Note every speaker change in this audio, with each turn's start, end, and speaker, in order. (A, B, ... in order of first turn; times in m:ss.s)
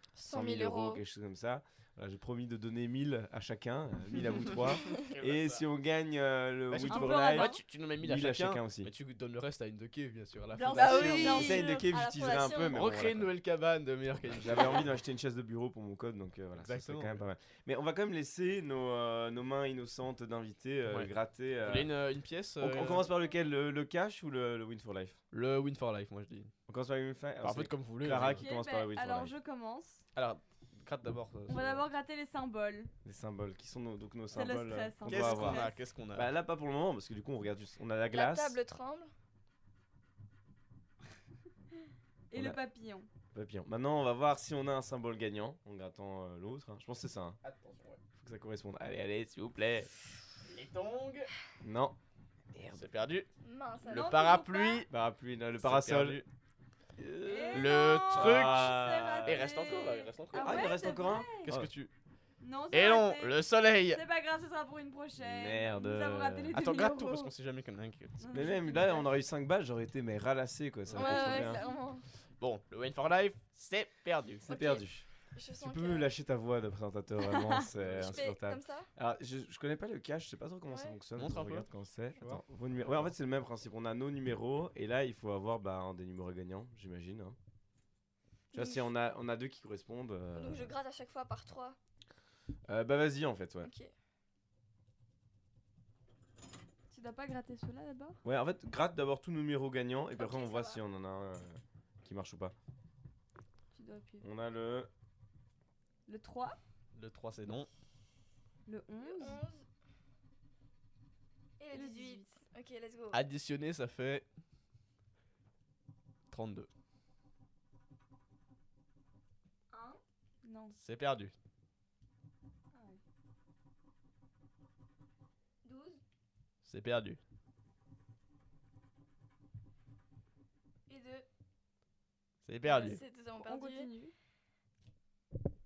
0:00.2-0:01.0 A
0:00.3-0:08.9 B
0:04.8-0:05.7 C
0:06.7-0:11.4 C
0:06.9-0:07.6 D
0:10.5-0:11.9 D
0:10.7-0:12.9 A
0:10.7-0:13.3 B
0:12.7-0:15.0 C
0:14.3-0:21.9 B
0:16.6-0:17.2 C
0:20.9-0:23.1 C
0:22.6-0:25.2 B
0:25.3-0:26.5 C
0:26.7-0:29.4 B
0:27.4-0:28.5 C
0:28.2-0:30.0 D
0:30.2-0:31.9 C
0:31.5-0:32.9 D
0:33.0-0:38.6 B
0:34.3-0:35.8 D
0:35.0-0:36.3 C
0:38.1-0:39.1 A
0:42.3-0:43.1 D
0:42.3-0:42.6 B
0:43.3-0:47.4 B
0:47.4-0:48.0 C
0:48.2-0:49.9 B
0:50.4-0:51.3 C
0:51.6-0:52.0 B
0:52.5-0:52.8 B
0:52.8-0:53.3 C
0:53.4-0:54.7 A
0:53.9-0:54.9 C
0:54.3-0:54.8 D
0:54.9-0:56.2 B
0:55.6-0:56.3 C
0:57.0-0:59.5 B
0:57.2-1:01.5 D
0:57.5-1:00.8 C
1:00.4-1:01.7 B
1:01.4-1:01.9 C
1:02.4-1:03.4 D
1:02.7-1:04.0 C
1:03.9-1:07.3 D
1:05.2-1:06.6 B
1:06.5-1:08.5 C
1:08.2-1:09.0 D
1:08.3-1:11.6 B
1:10.9-1:11.4 C
1:11.0-1:12.0 A
1:11.3-1:11.6 D
1:12.4-1:14.5 C
1:14.5-1:15.1 B
1:14.5-1:16.1 A
1:15.6-1:27.4 B
1:17.8-1:18.2 C
1:18.0-1:18.9 A
1:20.7-1:21.0 A
1:21.2-1:21.7 C
1:22.2-1:23.0 C
1:28.5-1:28.9 A
1:28.5-1:30.7 B
1:30.4-1:31.8 A
1:32.7-1:33.7 B
1:33.6-1:33.9 A
1:36.9-1:38.2 D
1:38.2-1:42.5 B
1:40.2-1:40.8 A
1:43.7-1:44.2 D
1:44.2-1:44.9 B
1:46.1-1:46.6 D
1:46.9-1:47.7 C
1:48.7-1:49.4 D
1:49.0-1:49.6 A
1:51.6-1:53.2 A
1:51.7-1:52.3 D
1:53.1-1:54.2 C
1:56.3-1:56.7 C
1:59.7-2:00.0 A
2:00.4-2:00.8 D
2:00.8-2:01.3 C
2:05.6-2:06.0 A
2:06.6-2:07.2 C
2:10.9-2:11.3 A
2:12.4-2:13.0 C
2:12.7-2:14.1 D
2:12.7-2:13.9 A